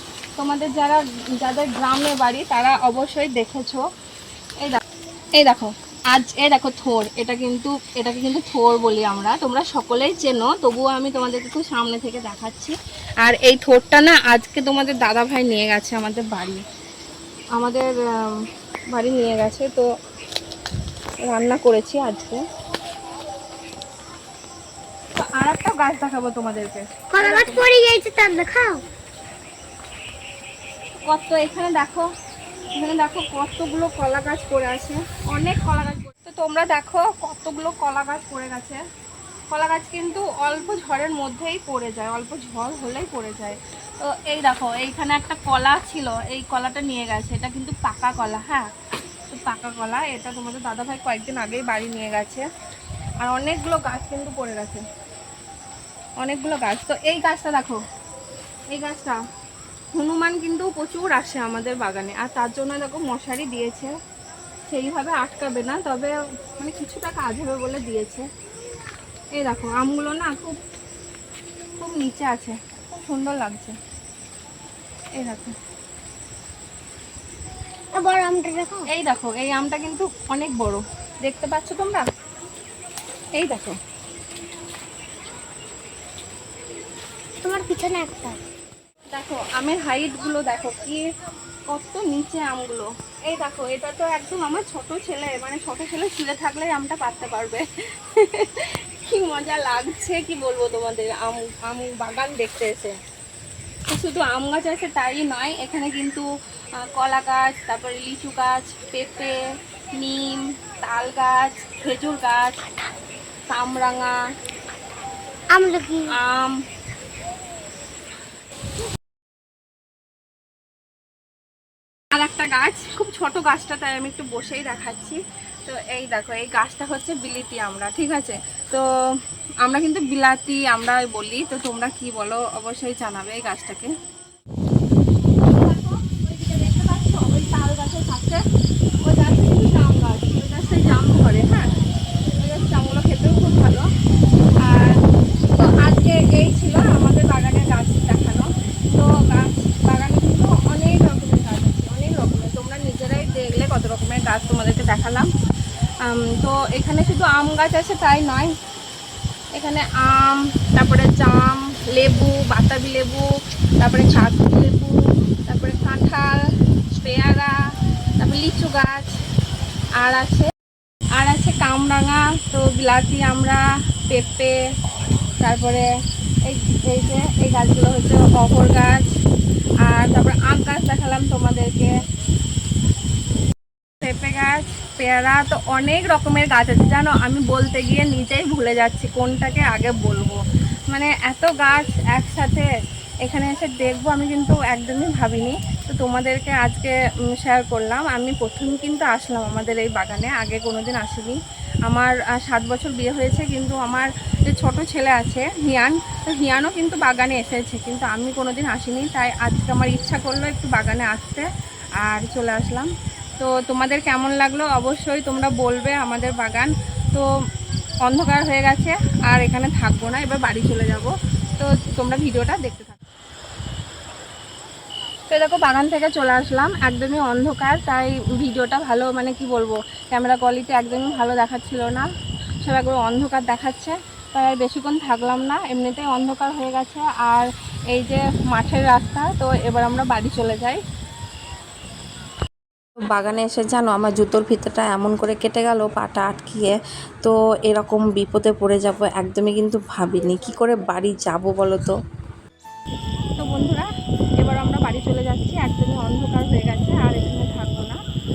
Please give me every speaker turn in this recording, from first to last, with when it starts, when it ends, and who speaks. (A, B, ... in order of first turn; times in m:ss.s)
0:00.4-0:03.9 A
0:05.4-0:16.6 A
0:17.6-0:19.9 A
0:21.2-0:22.4 A
0:25.2-0:27.6 A
0:27.1-0:28.8 B
0:31.1-0:32.1 A
0:32.8-0:38.8 A
0:39.5-0:48.7 A
0:49.3-0:52.4 A
0:53.2-0:54.8 A
0:56.2-0:57.8 A
0:58.7-0:59.2 A
0:59.9-1:04.0 A
1:04.7-1:08.3 A
1:09.4-1:10.6 A
1:11.8-1:13.8 A
1:15.2-1:15.6 A
1:18.0-1:18.9 B
1:18.9-1:22.1 A
1:23.4-1:23.8 A
1:27.4-1:28.4 B
1:29.1-1:31.0 A
1:31.7-1:43.0 A
1:43.9-1:46.3 A
1:46.8-1:49.4 A
1:50.0-1:52.6 A
1:53.5-1:54.2 A
1:55.5-1:56.1 B
1:56.1-1:56.6 A
2:02.1-2:08.9 A
2:09.6-2:13.9 A
2:15.5-2:18.4 A
2:19.0-2:21.8 A
2:22.4-2:23.9 A
2:24.6-2:35.3 A
2:36.0-2:38.5 A
2:39.6-2:43.3 A
2:43.8-2:47.6 A
2:48.2-2:49.2 A
2:50.0-2:50.5 A
2:51.2-2:54.6 A
2:55.4-2:55.9 A
2:56.4-2:59.1 A
2:59.8-3:02.0 A
3:04.0-3:10.4 A
3:10.9-3:12.7 A
3:13.2-3:31.5 A
3:32.0-3:37.3 A
3:38.1-3:43.0 A
3:45.3-3:52.1 A
3:52.6-4:00.8 A
4:03.1-4:03.8 A
4:03.8-4:11.9 C
4:13.4-4:13.9 A
4:14.4-4:18.0 A